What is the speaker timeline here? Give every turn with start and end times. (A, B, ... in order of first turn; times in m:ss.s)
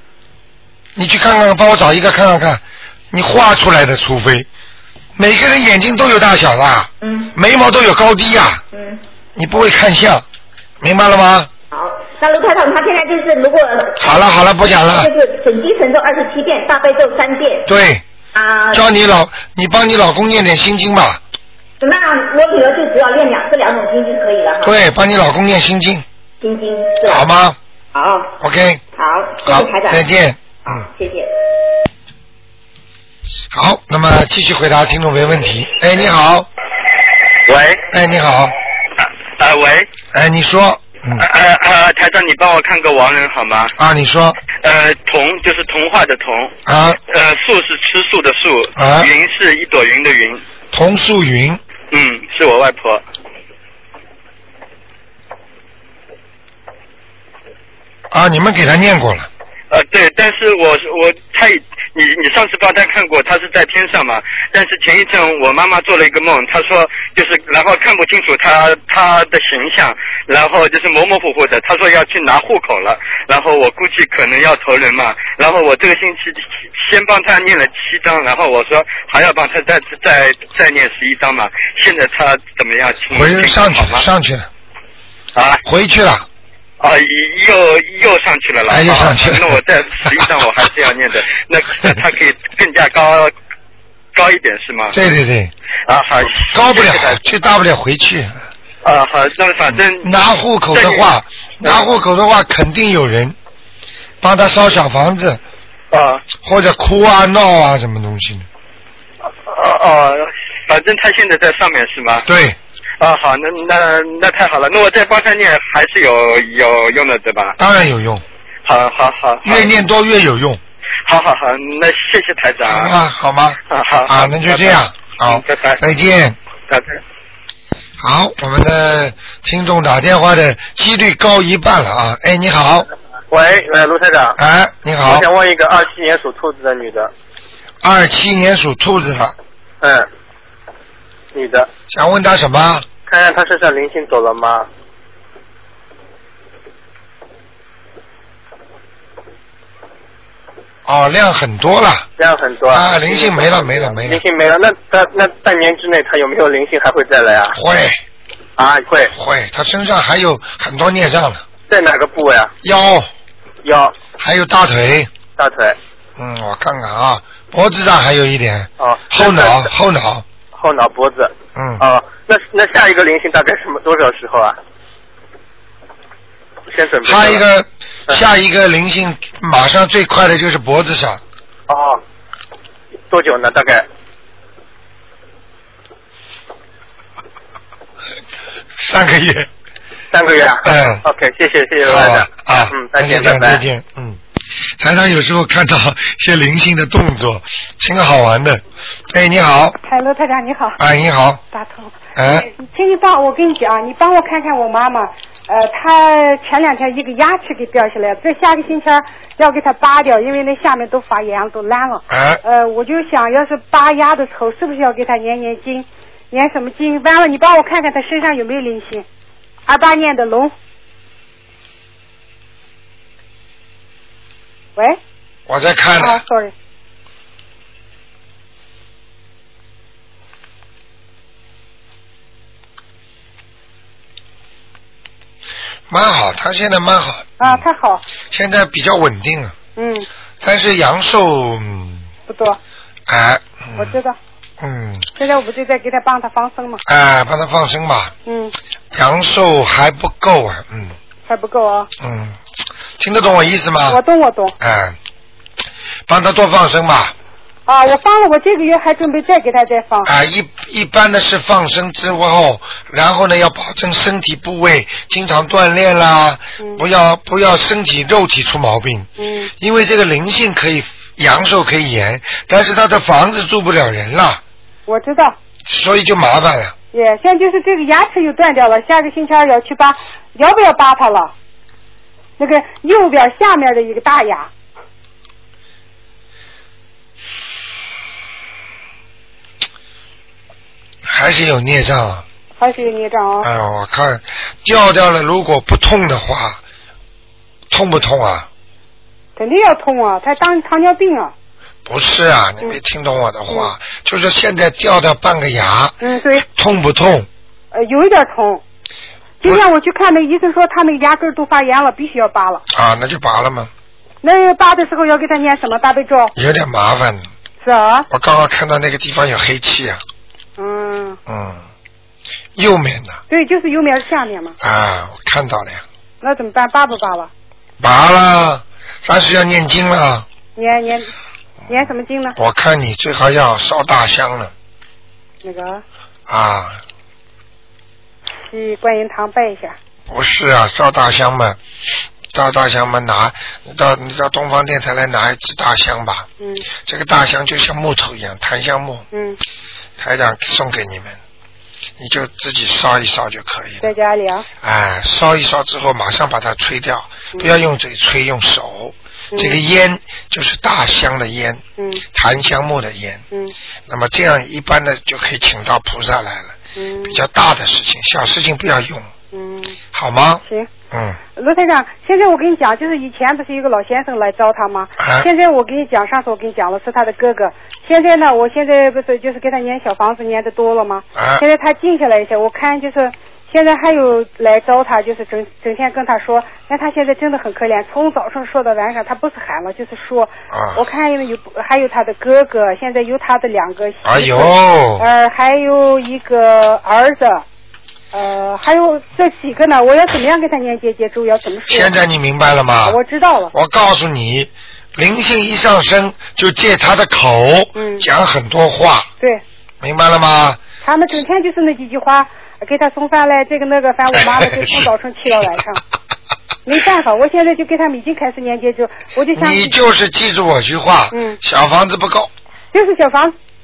0:01.0-0:04.5 A
0:05.2-0:08.6 A
0:07.0-0:07.3 B
0:08.7-0:09.0 B
0:09.3-0:10.2 A
0:10.8-0:11.5 A
0:11.7-0:14.0 B
0:14.0-0:15.1 A
0:14.9-0:17.7 B
0:17.6-0:18.0 A
0:18.3-0:18.9 B
0:18.7-0:21.2 A
0:21.8-0:24.7 B
0:24.6-0:26.0 A
0:26.4-0:27.3 B
0:27.0-0:27.6 A
0:27.9-0:28.3 B
0:28.4-0:28.8 A
0:29.0-0:30.0 B
0:29.4-0:30.8 A
0:30.7-0:31.3 B
0:33.5-0:36.5 A
0:37.4-0:37.8 C
0:37.9-0:38.5 A
0:39.0-0:39.9 C
0:40.1-0:41.2 A
0:41.2-0:43.7 C
0:43.8-0:44.4 A
0:44.6-0:46.6 C
0:46.6-0:47.0 A
0:47.1-0:50.4 C
0:48.8-0:49.1 A
0:50.7-0:51.6 A
0:51.9-0:53.0 C
0:58.1-0:59.3 A
0:59.7-1:24.0 C
1:23.1-1:24.5 A
1:25.3-1:25.6 C
1:25.6-1:26.2 A
1:26.8-1:33.3 C
1:28.7-1:30.3 A
1:34.1-1:35.0 C
1:34.9-1:35.5 A
1:35.9-1:37.2 C
1:36.4-1:38.4 A
1:38.8-1:40.2 C
1:39.7-1:43.4 A
1:40.7-1:41.1 C
1:44.2-1:45.4 A
1:45.9-1:46.2 C
1:46.4-1:48.5 A
1:49.4-1:52.3 C
1:52.2-1:52.6 A
1:53.0-1:57.6 C
1:57.6-1:58.2 A
1:58.6-1:59.7 C
1:59.4-2:00.6 A
2:01.1-2:02.9 C
2:02.6-2:06.4 A
2:03.7-2:05.8 C
2:06.7-2:07.0 C
2:08.0-2:12.9 A
2:13.3-2:14.4 D
2:14.4-2:15.3 A
2:15.0-2:17.1 D
2:17.8-2:19.3 A
2:19.8-2:20.1 D
2:21.3-2:21.7 D
2:21.9-2:22.8 A
2:23.0-2:24.7 D
2:30.8-2:32.1 A
2:32.2-2:37.6 D
2:32.7-2:34.2 A
2:37.5-2:38.0 A
2:38.6-2:39.1 D
2:39.1-2:41.4 A
2:41.7-2:42.5 D
2:42.6-2:43.1 A
2:43.6-2:44.0 D
2:44.2-2:45.1 A
2:45.4-2:45.8 D
2:46.2-2:50.2 A
2:48.8-2:49.7 D
2:50.5-2:54.6 D
2:51.5-2:51.8 A
2:56.7-2:57.4 D
2:57.0-3:01.2 A
3:01.7-3:02.0 D
3:03.1-3:03.8 D
3:08.8-3:09.5 A
3:10.1-3:13.6 D
3:10.6-3:11.0 A
3:11.8-3:14.2 A
3:14.8-3:19.8 A
3:19.8-3:20.8 E
3:20.8-3:21.4 A
3:21.5-3:39.0 E
3:22.2-3:22.5 A
3:32.1-3:32.4 A
3:39.7-3:40.5 E
3:45.5-3:46.2 A
3:46.0-3:46.5 E
3:55.9-3:57.6 A
3:57.4-3:58.0 E
3:58.3-3:59.5 A
3:59.8-4:00.1 E
4:00.4-4:02.1 A
4:02.3-4:02.6 E
4:03.1-4:03.9 A
4:03.8-4:04.2 E
4:04.6-4:05.1 A
4:05.2-4:06.8 E
4:06.8-4:08.1 A
4:08.2-4:08.5 E
4:08.9-4:11.0 A
4:11.3-4:11.9 E
4:12.0-4:12.4 A
4:13.0-4:14.0 A
4:13.8-4:14.6 E
4:14.6-4:15.0 A
4:16.1-4:17.1 A
4:17.7-4:20.1 E
4:20.0-4:34.4 A
4:29.2-4:29.5 E
4:34.9-4:35.4 E
4:35.6-4:36.7 A
4:36.9-4:41.3 E
4:42.4-4:44.5 E
4:51.0-4:52.2 A
4:52.6-4:53.5 E
4:53.4-4:56.6 A
4:57.7-4:58.5 A
4:59.4-5:01.3 E
5:01.8-5:07.3 A
5:06.0-5:06.4 E
5:07.7-5:08.6 E
5:09.4-5:12.6 E
5:12.7-5:13.7 A
5:14.2-5:16.3 E
5:16.4-5:17.2 A
5:17.6-5:18.1 E
5:18.1-5:20.0 A
5:20.6-5:21.2 E
5:21.3-5:21.6 A
5:22.6-5:23.2 A
5:23.3-5:24.6 E
5:24.6-5:25.8 A
5:26.2-5:27.3 E
5:27.8-5:30.2 A
5:30.6-5:31.1 E
5:31.6-5:34.5 A
5:31.7-5:32.4 E
5:35.4-5:35.8 E
5:36.3-5:36.8 A
5:38.4-5:39.8 E
5:40.1-5:41.6 A
5:42.3-5:46.3 A
5:46.4-5:46.6 E
5:46.8-5:49.0 A
5:49.1-5:49.4 E
5:50.0-5:51.2 A
5:52.0-5:53.9 A
5:53.8-5:54.4 E
5:54.6-6:01.6 A
5:57.3-5:57.6 E
5:59.3-5:59.6 E
6:01.8-6:02.0 E
6:02.1-6:03.2 A
6:03.9-6:06.6 A
6:06.8-6:07.2 E
6:07.1-6:09.1 A
6:09.3-6:09.8 E
6:09.9-6:11.2 A
6:11.4-6:37.4 E
6:15.0-6:15.3 A
6:21.1-6:21.4 A
6:30.5-6:30.8 A
6:34.0-6:35.0 A
6:38.1-6:42.0 E
6:41.7-6:43.0 A
6:42.8-6:43.5 E
6:43.5-6:49.1 A
6:47.8-6:48.0 E
6:49.8-6:50.6 A
6:50.8-6:55.8 E
6:56.6-6:59.8 E
6:59.3-7:02.3 A
7:01.1-7:01.4 E
7:02.7-7:03.3 E